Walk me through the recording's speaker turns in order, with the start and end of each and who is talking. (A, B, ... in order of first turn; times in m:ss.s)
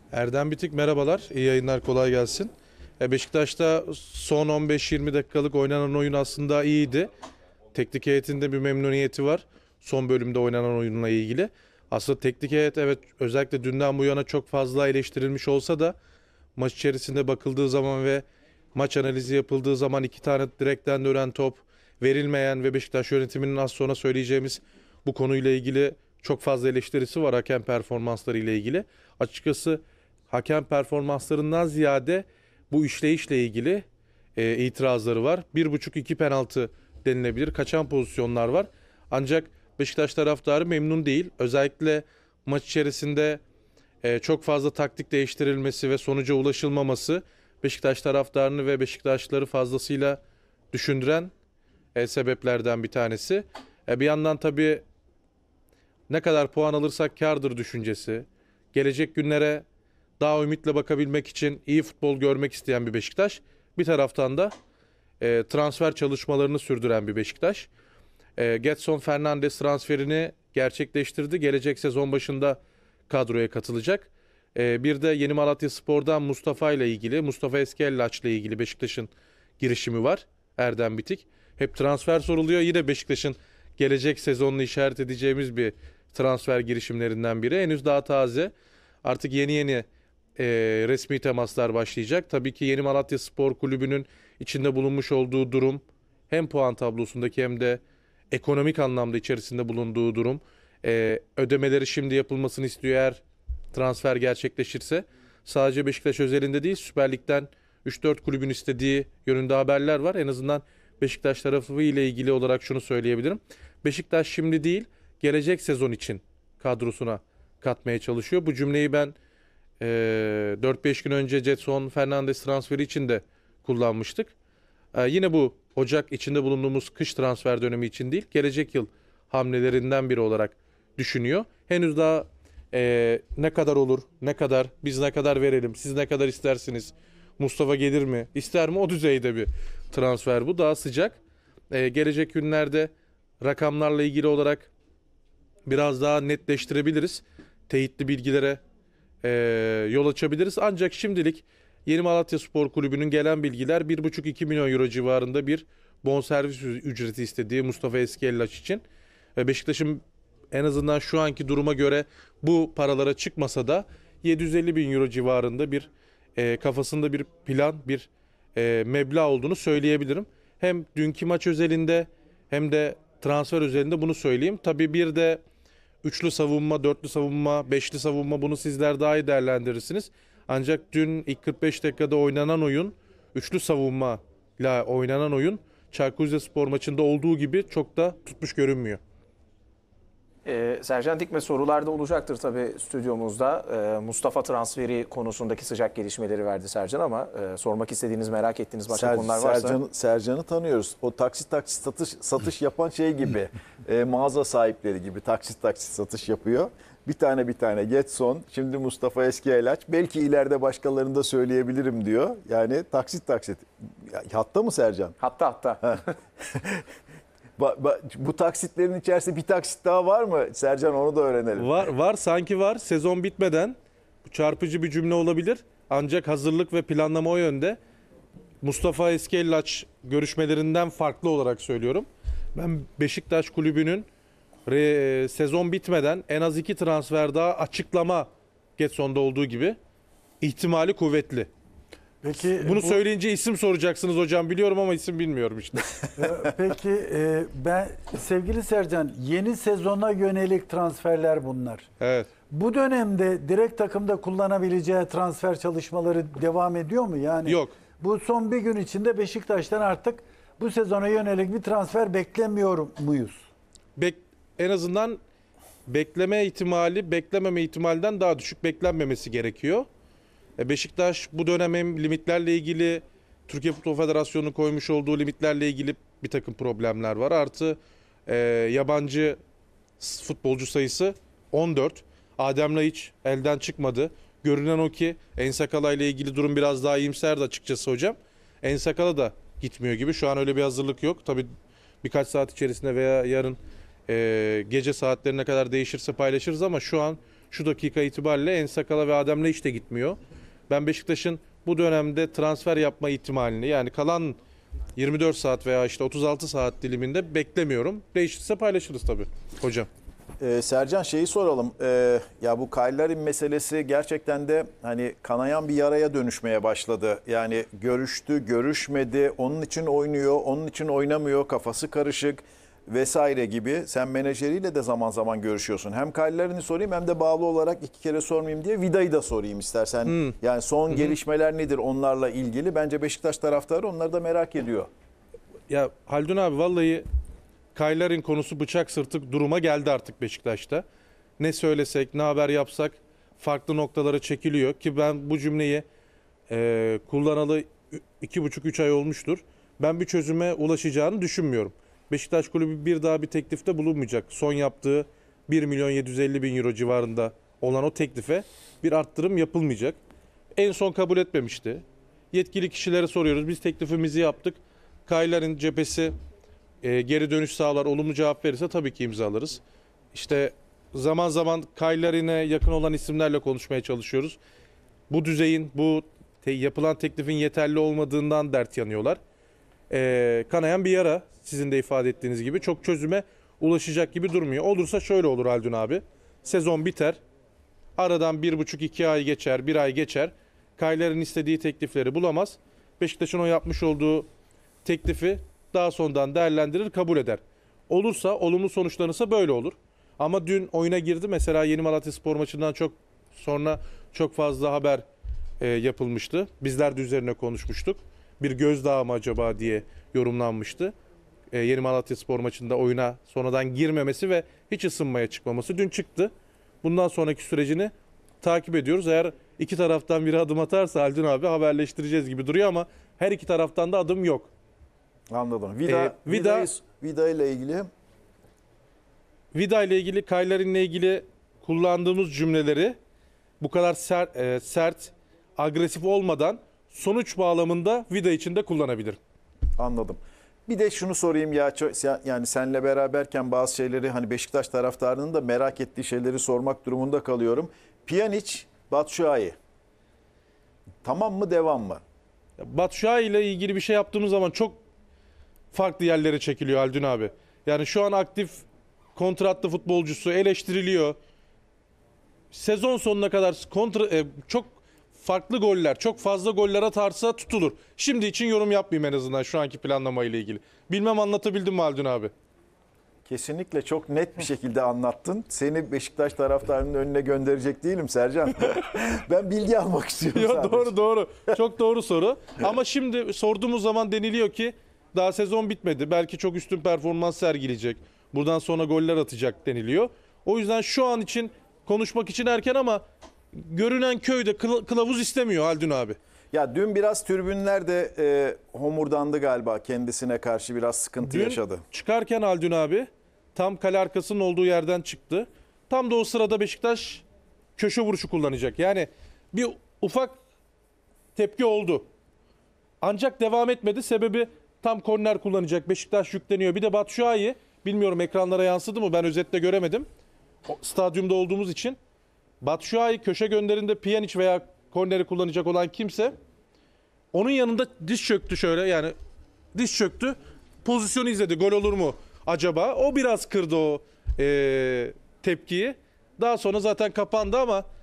0:00.1-0:07.1 A
0:07.7-0:16.0 A
0:16.6-0:33.8 A
0:34.4-0:43.4 A
0:44.0-0:50.2 A
0:50.7-0:51.3 A
0:52.0-0:54.8 A
0:56.1-0:59.6 A
1:00.2-1:04.5 A
1:05.2-1:07.7 A
1:08.4-1:28.5 A
1:29.0-1:29.8 A
1:30.4-1:43.2 A
1:43.7-1:59.2 A
1:59.8-2:04.3 A
2:04.9-2:21.2 A
2:21.7-2:24.7 A
2:25.7-2:28.6 A
2:29.2-2:38.8 A
2:39.4-2:55.4 A
2:56.0-3:09.0 A
3:10.5-3:19.8 B
3:18.9-3:35.2 C
3:35.2-3:36.0 B
3:35.8-3:36.8 C
3:37.6-3:41.8 C
3:41.6-3:47.8 A
3:48.6-3:54.1 A
3:54.7-3:59.8 A
4:00.4-4:01.5 A
4:02.2-4:03.0 D
4:02.5-4:06.1 A
4:06.2-4:11.9 D
4:12.0-4:12.3 A
4:12.5-4:23.4 D
4:17.4-4:17.7 A
4:24.0-4:25.2 A
4:25.9-4:29.9 A
4:30.6-4:39.4 A
4:40.0-4:51.5 A
4:52.0-5:00.2 A
5:00.7-5:04.4 A
5:05.0-5:09.9 A
5:10.4-5:34.9 C
5:30.1-5:30.4 A
5:35.7-5:37.1 A
5:37.8-5:40.8 A
5:41.4-5:45.8 A
5:46.5-6:00.0 A
6:00.6-6:06.1 A
6:06.8-6:09.6 A
6:10.1-6:14.4 A
6:15.1-6:19.2 A
6:19.9-6:27.2 A
6:28.0-6:34.3 A
6:34.8-6:45.0 A
6:45.6-6:50.9 A
6:51.5-6:56.3 A
6:56.8-7:04.5 A
7:05.3-7:07.9 C
7:05.9-7:06.7 A
7:09.5-7:13.0 A
7:13.6-7:19.2 A
7:19.8-7:29.6 C
7:31.0-7:32.0 C
7:32.6-7:34.8 A
7:35.7-7:38.6 A
7:39.2-7:41.2 A
7:42.5-7:52.3 A
7:53.3-8:00.9 C
8:00.3-8:13.0 A
8:13.6-8:16.2 A
8:16.5-8:21.8 C
8:21.2-8:27.2 A
8:27.8-8:30.4 A
8:31.4-8:32.0 A
8:33.0-8:40.0 A
8:40.6-8:42.0 A
8:42.6-8:46.3 A
8:47.3-8:49.1 A
8:49.7-8:57.8 A